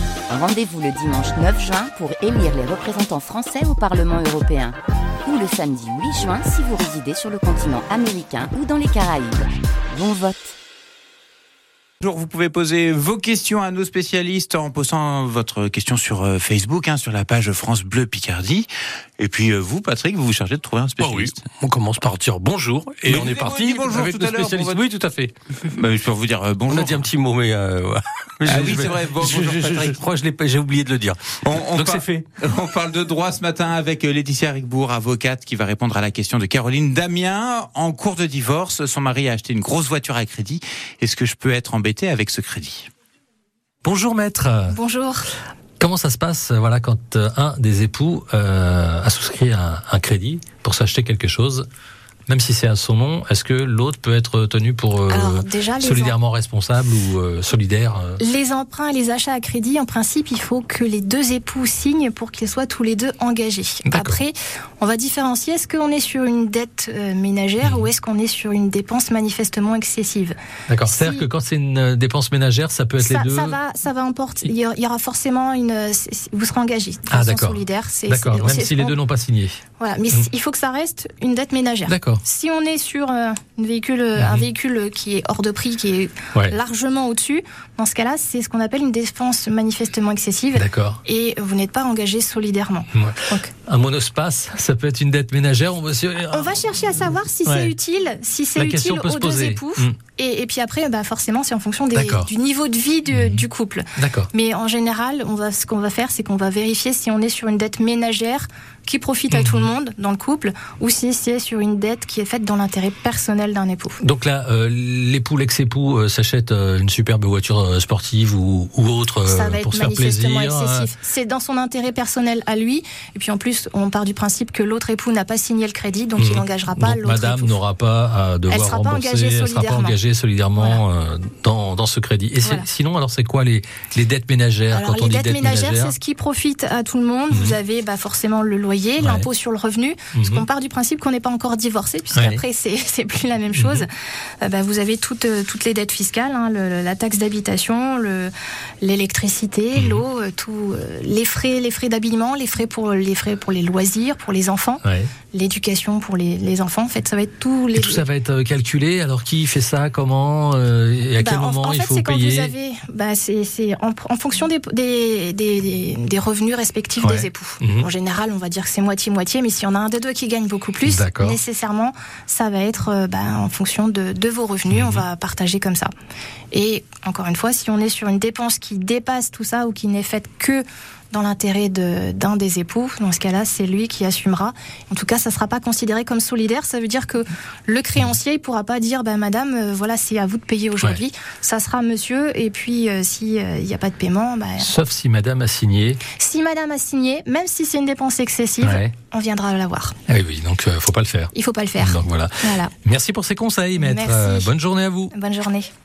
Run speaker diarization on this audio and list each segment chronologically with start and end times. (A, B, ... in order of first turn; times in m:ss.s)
0:00.3-0:10.5 A
0:12.0-0:18.7 B
0:19.2-0:21.4 B
0:21.0-0:25.3 C
0:23.0-0:24.8 B
0:25.6-0:27.1 B
0:26.7-0:32.1 C
0:28.4-0:30.0 B
0:31.4-0:42.9 B
0:43.8-0:44.8 C
0:44.7-0:45.3 D
0:45.8-0:51.7 C
0:52.3-0:58.2 C
0:55.1-0:56.2 D
0:58.2-1:11.3 D
1:03.8-1:04.2 C
1:07.6-1:07.9 C
1:10.7-1:13.6 C
1:13.0-1:19.0 D
1:17.1-1:19.6 C
1:19.8-1:33.5 D
1:21.9-1:22.2 C
1:24.2-1:24.5 C
1:30.5-1:31.0 C
1:32.9-1:36.5 C
1:36.3-1:54.0 D
1:37.4-1:37.7 C
1:38.6-1:39.9 C
1:41.9-1:42.3 C
1:43.1-1:43.4 C
1:44.0-1:44.3 C
1:49.3-1:49.7 C
1:54.0-2:00.9 C
1:59.2-2:07.6 D
2:06.2-2:16.0 C
2:08.5-2:10.0 D
2:10.6-2:10.8 D
2:12.4-2:12.7 D
2:14.7-2:23.9 D
2:19.0-2:19.3 C
2:20.1-2:20.4 C
2:22.1-2:22.4 C
2:23.5-2:23.8 C
2:24.4-2:38.0 D
2:29.7-2:30.0 C
2:34.8-2:35.1 C
2:37.7-2:42.5 C
2:41.2-2:55.9 D
2:47.0-2:47.9 C
2:50.8-2:51.4 C
2:54.7-2:55.0 C
2:56.5-3:14.8 D
3:14.6-3:16.0 C
3:16.2-3:19.9 D
3:18.6-3:18.9 C
3:20.1-3:25.1 C
3:21.3-3:22.7 D
3:23.8-3:24.5 D
3:25.1-3:25.7 D